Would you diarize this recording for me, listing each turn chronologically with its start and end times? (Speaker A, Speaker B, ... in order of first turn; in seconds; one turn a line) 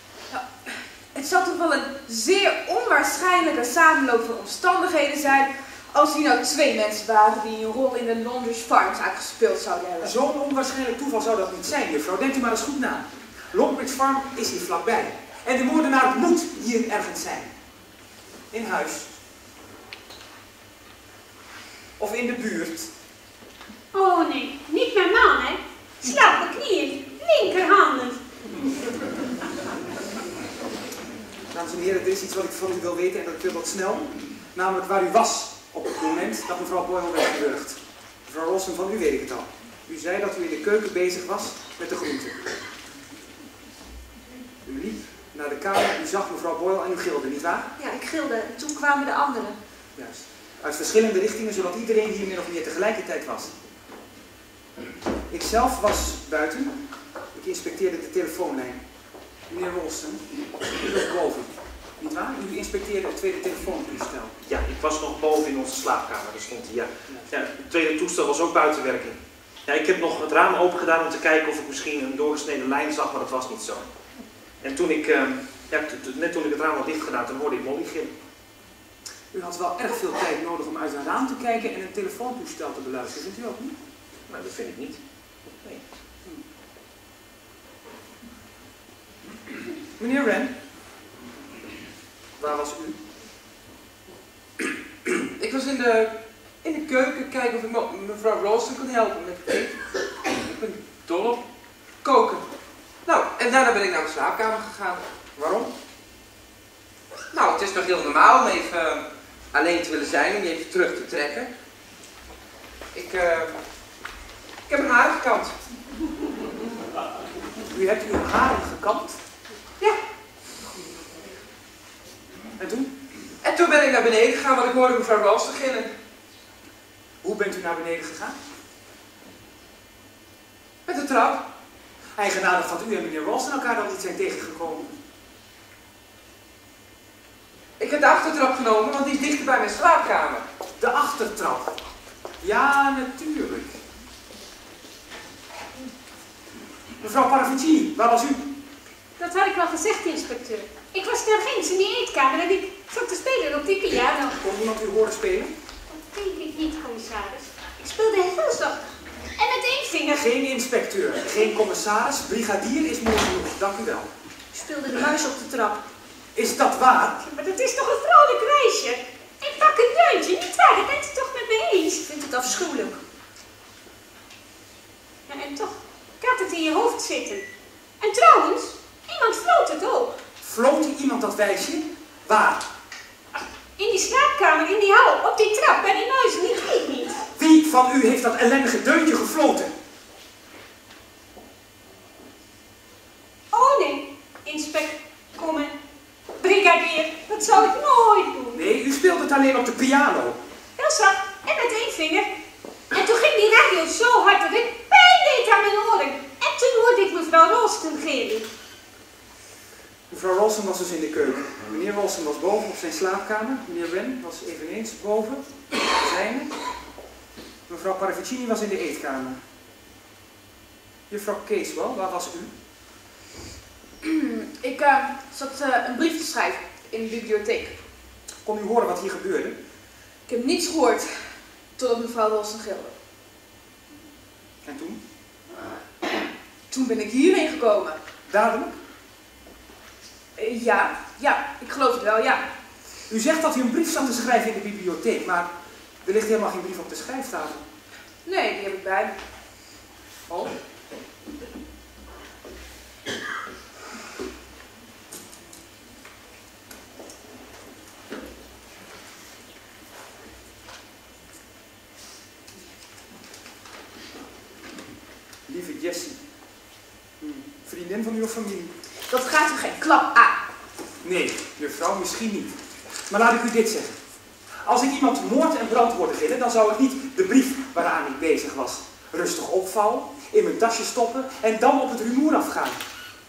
Speaker A: 0.3-10.1
Speaker B: 10.0-17.5
Speaker B: 18.5-19.1
Speaker B: 22.0-22.9
Speaker C: 23.9-28.2
Speaker B: 31.5-42.4
Speaker B: 44.6-47.7
Speaker D: 47.8-49.6
Speaker B: 50.0-53.5
Speaker B: 55.3-56.8
Speaker B: 57.3-58.8
Speaker B: 59.5-64.4
Speaker E: 64.4-73.9
Speaker E: 74.6-78.1
Speaker B: 79.3-83.8
Speaker E: 84.3-85.0
Speaker B: 90.0-90.5
Speaker B: 92.4-93.0
Speaker F: 95.4-101.4
Speaker F: 102.0-102.4
Speaker F: 103.1-105.0
Speaker B: 105.4-105.7
Speaker F: 107.3-111.5
Speaker F: 112.9-113.6
Speaker F: 114.7-115.5
Speaker B: 117.7-119.2
Speaker B: 122.6-122.9
Speaker F: 123.4-125.9
Speaker B: 127.2-128.4
Speaker F: 130.9-131.4
Speaker B: 132.2-135.0
Speaker F: 137.8-140.4
Speaker B: 140.8-141.7
Speaker B: 142.4-143.8
Speaker B: 147.0-148.4
Speaker C: 149.2-154.4
Speaker B: 154.4-155.5
Speaker C: 155.9-157.5
Speaker D: 157.8-158.8
Speaker C: 159.3-160.2
Speaker B: 160.1-164.1
Speaker D: 164.5-165.8
Speaker B: 166.3-167.2
Speaker C: 167.2-172.0
Speaker D: 172.0-173.0
Speaker C: 175.3-177.5
Speaker C: 178.0-180.2
Speaker B: 180.4-182.6
Speaker C: 183.8-187.2
Speaker B: 187.3-189.7
Speaker C: 193.5-195.8
Speaker C: 196.4-198.6
Speaker B: 198.5-200.4
Speaker C: 200.8-202.3
Speaker C: 202.9-208.5
Speaker B: 210.1-216.6
Speaker B: 217.7-219.4
Speaker B: 221.1-222.5
Speaker A: 224.0-227.8
Speaker B: 228.4-229.6
Speaker A: 230.3-232.9
Speaker B: 234.6-235.0
Speaker A: 236.7-238.0
Speaker B: 238.3-238.8
Speaker A: 240.4-242.5
Speaker B: 243.1-245.5
Speaker B: 246.0-247.7
Speaker A: 248.2-249.2
Speaker B: 265.5-266.2
Speaker B: 267.2-268.8
Speaker A: 269.1-270.4
Speaker B: 271.0-274.0
Speaker B: 274.6-282.8